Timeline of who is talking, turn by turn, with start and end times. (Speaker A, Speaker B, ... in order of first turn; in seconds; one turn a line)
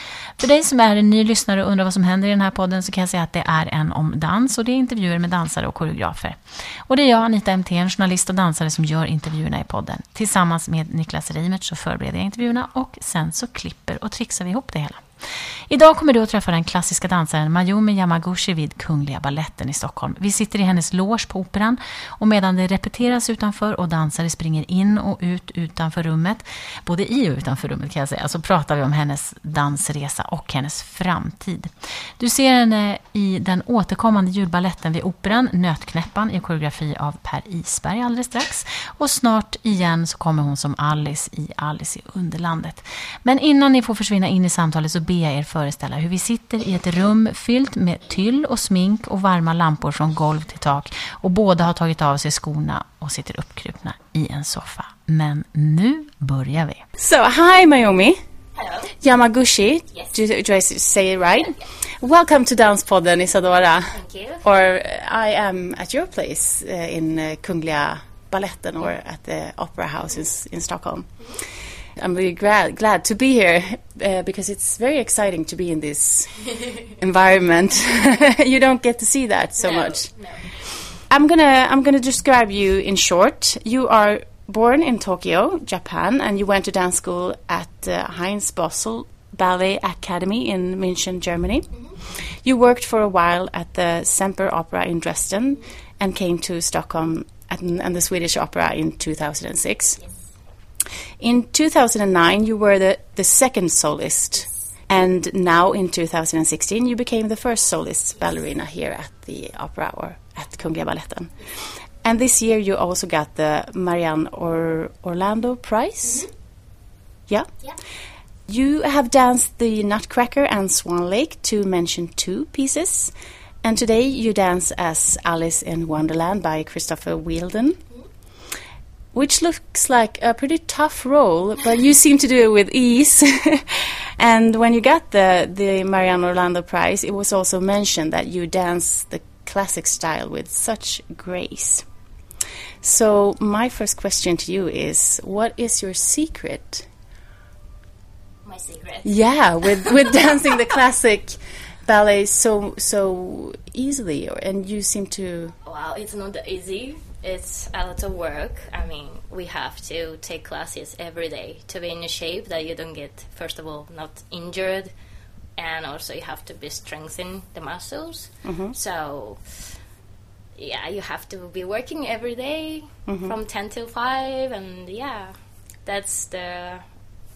Speaker A: 0.4-15.0
Speaker A: 15.7-56.9
Speaker B: 57.0-58.2
Speaker C: 58.6-58.9
Speaker B: 58.9-100.0
Speaker C: 63.9-64.4
Speaker C: 79.6-80.7
Speaker B: 101.2-116.3
Speaker B: 118.5-127.8
Speaker B: 129.1-141.8
Speaker B: 142.8-146.9
Speaker C: 148.4-149.1
Speaker B: 149.0-155.6
Speaker C: 149.6-150.1
Speaker C: 155.6-164.9
Speaker C: 165.6-169.8
Speaker B: 168.4-168.7
Speaker C: 170.6-176.8
Speaker B: 173.1-173.3